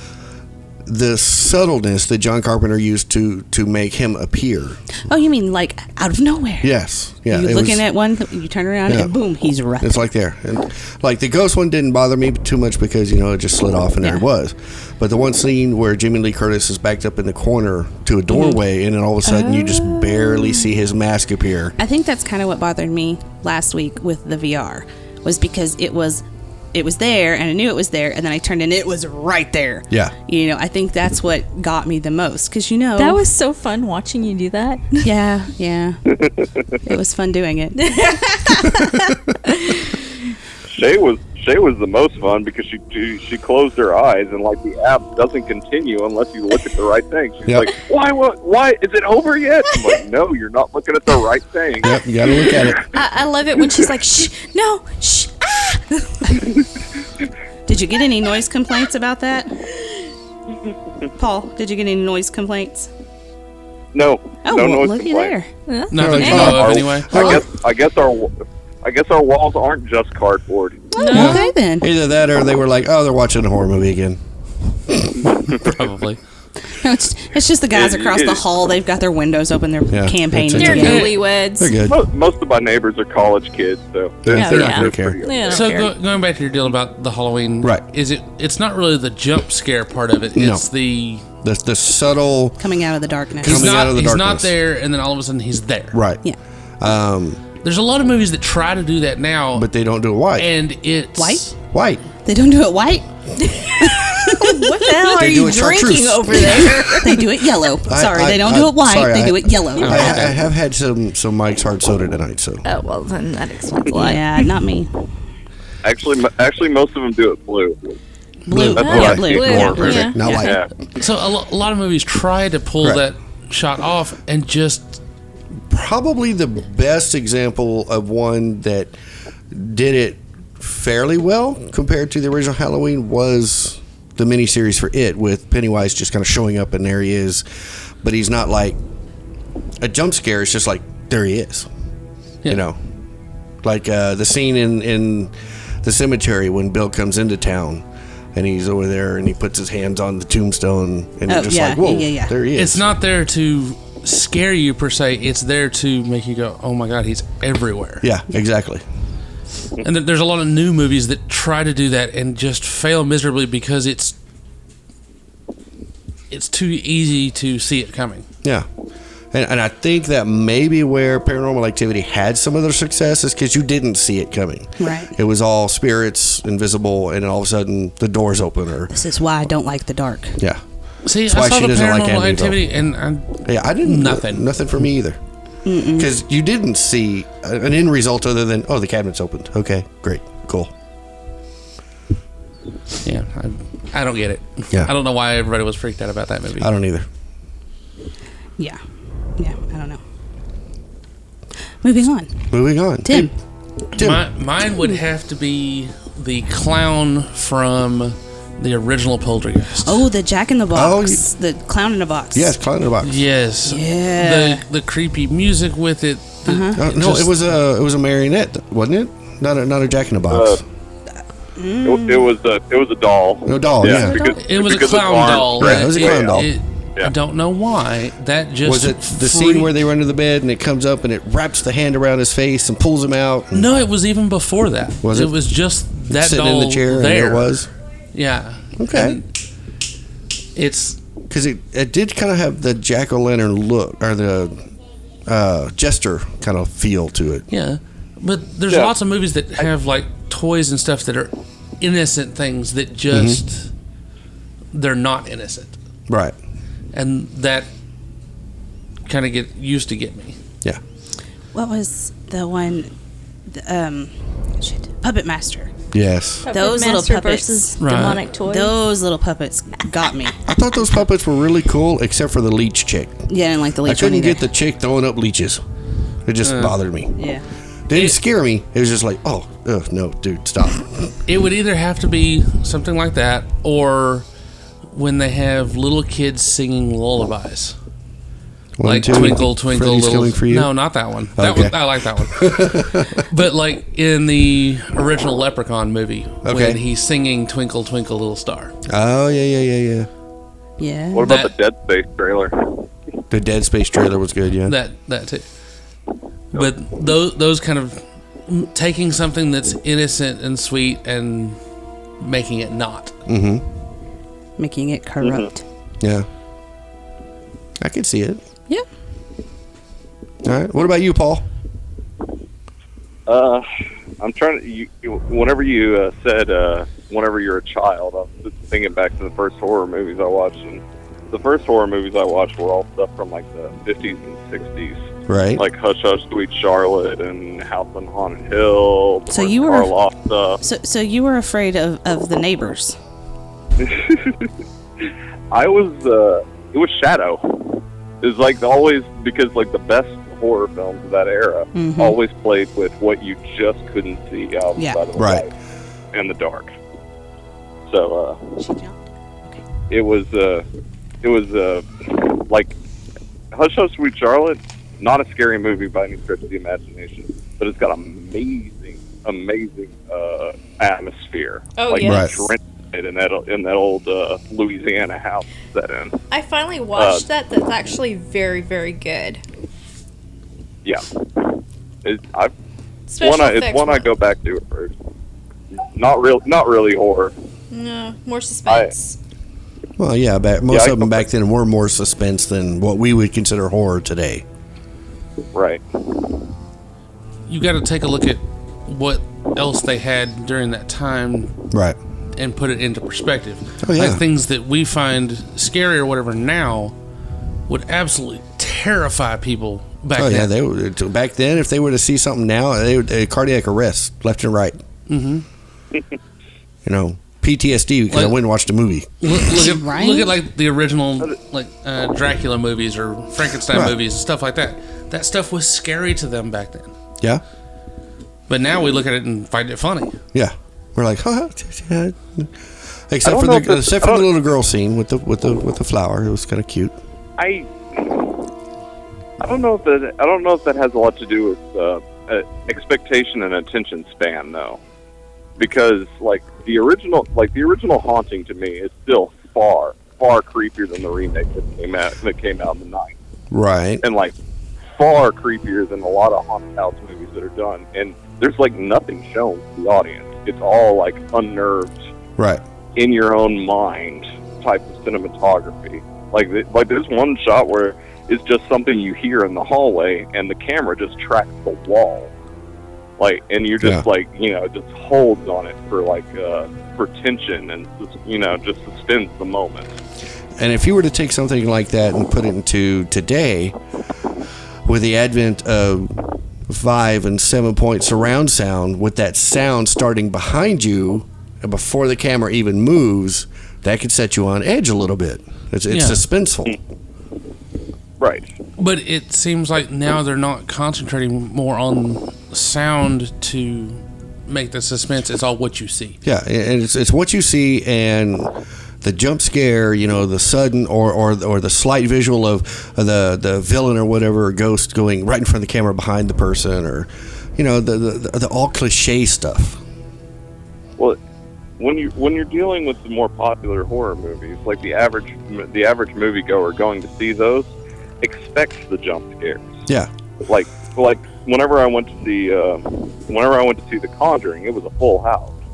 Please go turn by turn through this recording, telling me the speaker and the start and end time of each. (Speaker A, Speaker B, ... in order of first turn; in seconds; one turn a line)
Speaker A: 0.8-4.8
Speaker B: 5.1-6.7
Speaker A: 6.6-7.8
Speaker B: 7.3-10.0
Speaker A: 8.9-9.1
Speaker A: 9.8-21.8
Speaker B: 18.3-18.6
Speaker C: 19.2-20.7
Speaker B: 21.8-26.2
Speaker B: 26.7-33.2
Speaker C: 33.0-35.1
Speaker B: 35.0-36.0
Speaker D: 36.2-36.5
Speaker B: 36.8-38.7
Speaker C: 37.8-40.0
Speaker D: 40.7-51.9
Speaker A: 51.8-52.9
Speaker C: 52.9-56.4
Speaker B: 57.7-59.5
Speaker B: 61.2-62.9
Speaker D: 63.9-65.3
Speaker B: 64.4-65.5
Speaker C: 65.7-66.6
Speaker E: 65.9-67.2
Speaker A: 66.0-67.4
Speaker D: 66.3-70.9
Speaker B: 70.9-71.9
Speaker C: 71.0-71.4
Speaker A: 71.1-74.2
Speaker A: 74.7-75.2
Speaker D: 75.4-75.7
Speaker E: 75.5-76.2
Speaker B: 76.7-81.1
Speaker D: 77.7-78.4
Speaker A: 79.9-82.0
Speaker C: 80.5-81.8
Speaker E: 80.7-81.3
Speaker D: 81.8-85.7
Speaker A: 84.2-85.2
Speaker C: 84.3-85.9
Speaker E: 85.5-91.3
Speaker A: 90.3-90.7
Speaker A: 91.4-92.6
Speaker B: 92.6-93.8
Speaker A: 93.4-94.5
Speaker E: 93.4-96.0
Speaker A: 95.9-96.2
Speaker A: 96.8-97.4
Speaker E: 97.6-99.7
Speaker A: 99.5-100.5
Speaker E: 100.3-101.5
Speaker B: 101.2-101.5
Speaker A: 101.7-102.0
Speaker B: 102.2-103.0
Speaker C: 103.4-107.2
Speaker B: 103.8-105.2
Speaker A: 105.2-107.0
Speaker B: 107.0-110.3
Speaker A: 107.9-112.6
Speaker E: 109.8-110.4
Speaker C: 112.6-114.5
Speaker B: 113.9-115.1
Speaker D: 115.8-118.0
Speaker B: 118.5-120.5
Speaker A: 118.5-120.6
Speaker D: 118.7-120.7
Speaker C: 118.8-120.6
Speaker E: 121.0-125.0
Speaker A: 125.7-128.9
Speaker A: 129.5-137.4
Speaker A: 138.0-138.8
Speaker A: 139.8-141.7
Speaker A: 142.4-142.8
Speaker A: 143.6-152.8
Speaker B: 151.3-152.3
Speaker E: 152.6-158.1
Speaker A: 158.0-158.8
Speaker E: 159.8-164.2
Speaker E: 166.3-168.2
Speaker A: 169.3-178.9
Speaker B: 174.8-175.1
Speaker B: 178.9-180.4
Speaker E: 181.0-184.6
Speaker A: 181.2-182.6
Speaker A: 183.4-185.2
Speaker B: 185.6-186.1
Speaker A: 185.9-190.7
Speaker E: 193.0-196.7
Speaker A: 196.6-197.1
Speaker B: 199.4-200.0
Speaker B: 201.8-202.5
Speaker A: 202.5-203.3
Speaker B: 203.0-203.3
Speaker A: 203.9-204.2
Speaker E: 203.9-210.1
Speaker B: 209.8-212.5
Speaker A: 210.7-211.2
Speaker A: 212.3-213.2
Speaker E: 213.0-217.4
Speaker B: 213.6-214.6
Speaker B: 216.4-216.8
Speaker A: 216.7-220.6
Speaker D: 220.3-220.6
Speaker B: 221.6-222.3
Speaker D: 221.8-226.4
Speaker A: 223.4-224.2
Speaker E: 224.3-229.7
Speaker A: 225.5-226.5
Speaker A: 228.6-233.7
Speaker E: 233.5-239.3
Speaker A: 235.0-235.3
Speaker A: 236.1-237.7
Speaker A: 238.8-239.2
Speaker E: 240.5-241.0
Speaker A: 241.3-244.6
Speaker A: 245.3-247.4
Speaker E: 247.5-253.7
Speaker A: 253.1-253.4
Speaker E: 254.7-255.8
Speaker A: 256.1-256.3
Speaker E: 256.9-257.7
Speaker E: 259.1-260.4
Speaker B: 261.5-262.9
Speaker B: 263.5-265.7
Speaker A: 265.9-266.4
Speaker C: 266.4-268.8
Speaker B: 266.5-270.4
Speaker E: 267.8-268.2
Speaker A: 270.4-273.2
Speaker B: 273.3-274.4
Speaker A: 273.8-275.6
Speaker A: 276.2-277.1
Speaker E: 276.4-276.8
Speaker B: 277.2-277.4
Speaker A: 277.9-281.1
Speaker E: 277.9-278.2
Speaker E: 281.3-284.2
Speaker E: 284.9-287.8
Speaker A: 288.8-290.7
Speaker E: 288.8-298.7
Speaker A: 291.4-293.2
Speaker A: 296.4-296.8
Speaker A: 298.9-300.1
Speaker B: 300.8-301.3
Speaker D: 301.1-302.8
Speaker E: 301.2-301.5
Speaker A: 303.3-304.7
Speaker E: 304.7-305.4
Speaker E: 306.5-311.6
Speaker E: 312.2-313.1
Speaker A: 313.3-313.6
Speaker B: 314.6-315.6
Speaker A: 316.0-316.2
Speaker A: 317.8-318.4
Speaker A: 320.4-321.4
Speaker D: 323.3-323.6
Speaker D: 324.2-335.0
Speaker A: 335.3-335.6
Speaker D: 335.6-340.6
Speaker B: 339.3-339.9
Speaker B: 340.6-343.0
Speaker D: 343.8-355.5
Speaker B: 351.7-352.2
Speaker A: 355.1-355.5
Speaker D: 356.1-356.7
Speaker D: 357.9-358.5
Speaker B: 358.6-359.6
Speaker D: 359.9-360.6
Speaker D: 361.2-362.7
Speaker D: 363.5-376.2
Speaker C: 371.8-372.4
Speaker A: 372.0-372.3
Speaker C: 376.3-379.4
Speaker D: 376.9-377.2
Speaker D: 380.8-382.5
Speaker C: 383.1-384.1
Speaker D: 383.2-384.9
Speaker D: 385.9-387.3
Speaker C: 387.7-389.2
Speaker A: 390.0-394.4
Speaker D: 390.7-391.2
Speaker D: 395.5-395.8
Speaker E: 397.5-401.5
Speaker A: 401.7-402.0
Speaker E: 402.4-406.9
Speaker A: 403.8-404.2
Speaker E: 407.7-410.5
Speaker A: 410.1-414.8
Speaker E: 415.1-415.4
Speaker A: 416.8-419.4
Speaker E: 419.2-426.9
Speaker B: 419.5-420.3
Speaker A: 423.7-423.9
Speaker E: 428.5-430.2
Speaker A: 430.3-432.5
Speaker A: 433.1-436.9
Speaker D: 433.2-434.2
Speaker D: 437.4-438.4
Speaker D: 439.4-444.8
Speaker D: 445.6-453.1
Speaker A: 453.5-454.0
Speaker D: 454.0-454.3
Speaker D: 455.0-461.9
Speaker D: 462.9-472.3
Speaker D: 473.2-479.9
Speaker A: 480.6-483.7
Speaker A: 484.8-496.8
Speaker E: 495.9-496.2
Speaker D: 498.2-498.5
Speaker E: 498.8-506.2
Speaker A: 506.2-519.8
Speaker D: 521.8-529.7
Speaker D: 530.4-535.5